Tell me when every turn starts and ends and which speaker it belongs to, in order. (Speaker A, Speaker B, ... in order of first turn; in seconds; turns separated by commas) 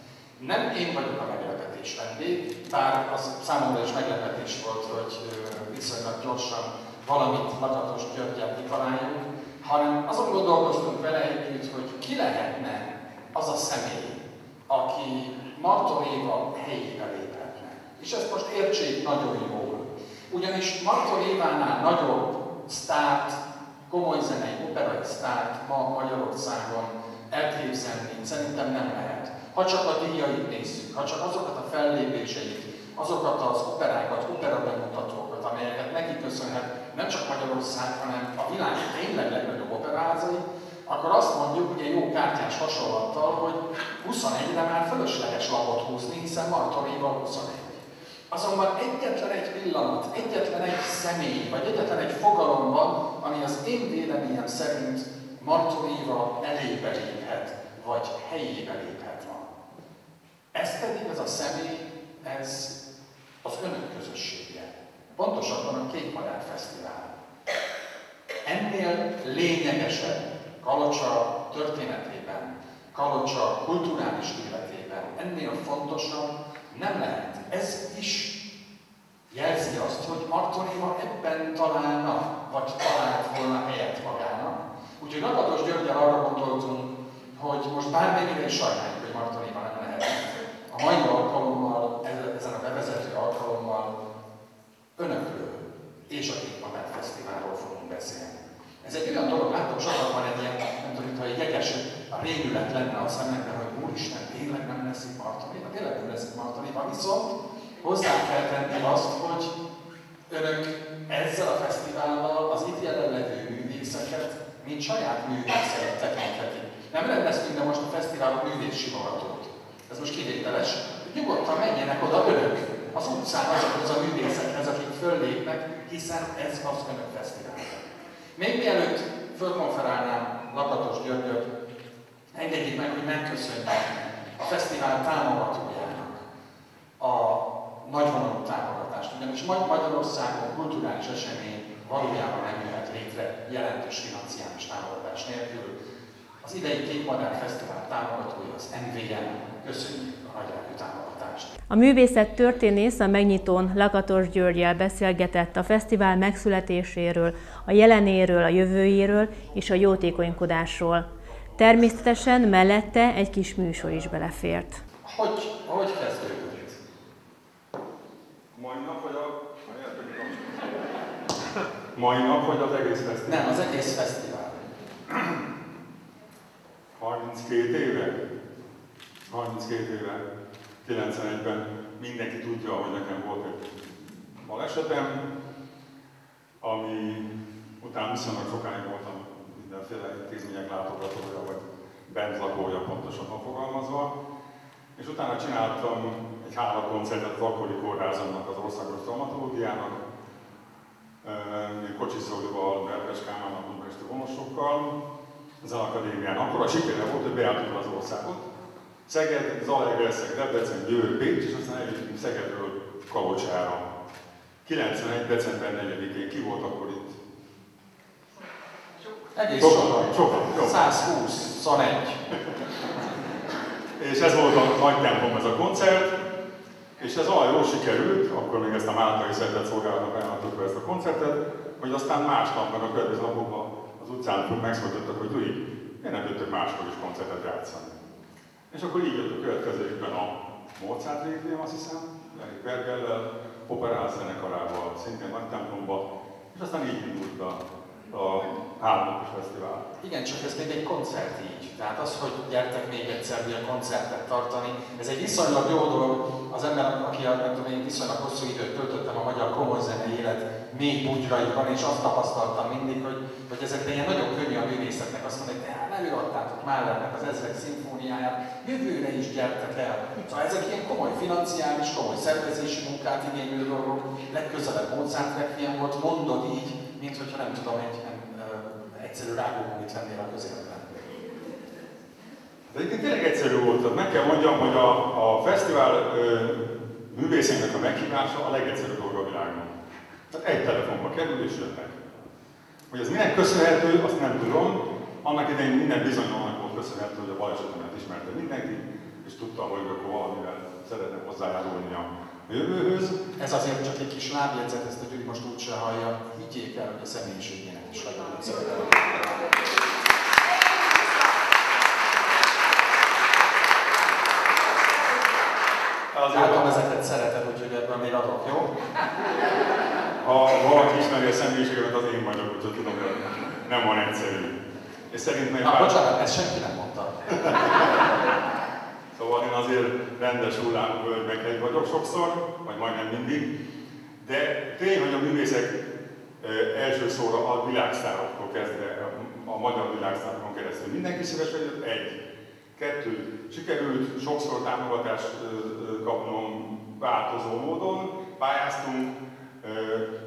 Speaker A: 0.4-59.5, Speaker A: 60.5-62.8, Speaker A: 63.4-67.1, Speaker A: 68.4-78.4, Speaker A: 79.3-94.0, Speaker A: 95.0-109.5, Speaker A: 110.3-131.5, Speaker A: 132.3-136.2, Speaker A: 137.0-145.8, Speaker A: 146.4-151.5, Speaker B: 151.7-164.8, Speaker A: 165.0-166.8, Speaker C: 168.5-170.6, Speaker C: 171.9-173.6, Speaker A: 173.2-174.7, Speaker C: 177.0-178.2, Speaker C: 179.3-180.2, Speaker C: 180.8-185.3, Speaker C: 186.6-187.3, Speaker C: 187.8-194.1, Speaker C: 194.9-200.0, Speaker C: 201.2-204.9, Speaker C: 205.6-208.4, Speaker C: 209.1-213.9, Speaker C: 214.6-217.2, Speaker A: 219.3-222.2, Speaker C: 219.6-220.9, Speaker C: 224.0-226.2, Speaker C: 227.0-237.9, Speaker C: 238.7-249.9, Speaker A: 250.0-281.1, Speaker C: 282.7-289.8, Speaker C: 290.3-292.0, Speaker C: 292.9-303.2, Speaker A: 303.4-309.5, Speaker C: 316.1-316.7, Speaker A: 316.3-318.7, Speaker C: 320.2-324.6, Speaker C: 325.1-325.9, Speaker A: 325.6-327.8, Speaker C: 327.3-327.9, Speaker C: 329.1-333.5, Speaker C: 334.2-335.8, Speaker C: 336.4-342.2, Speaker C: 342.8-350.1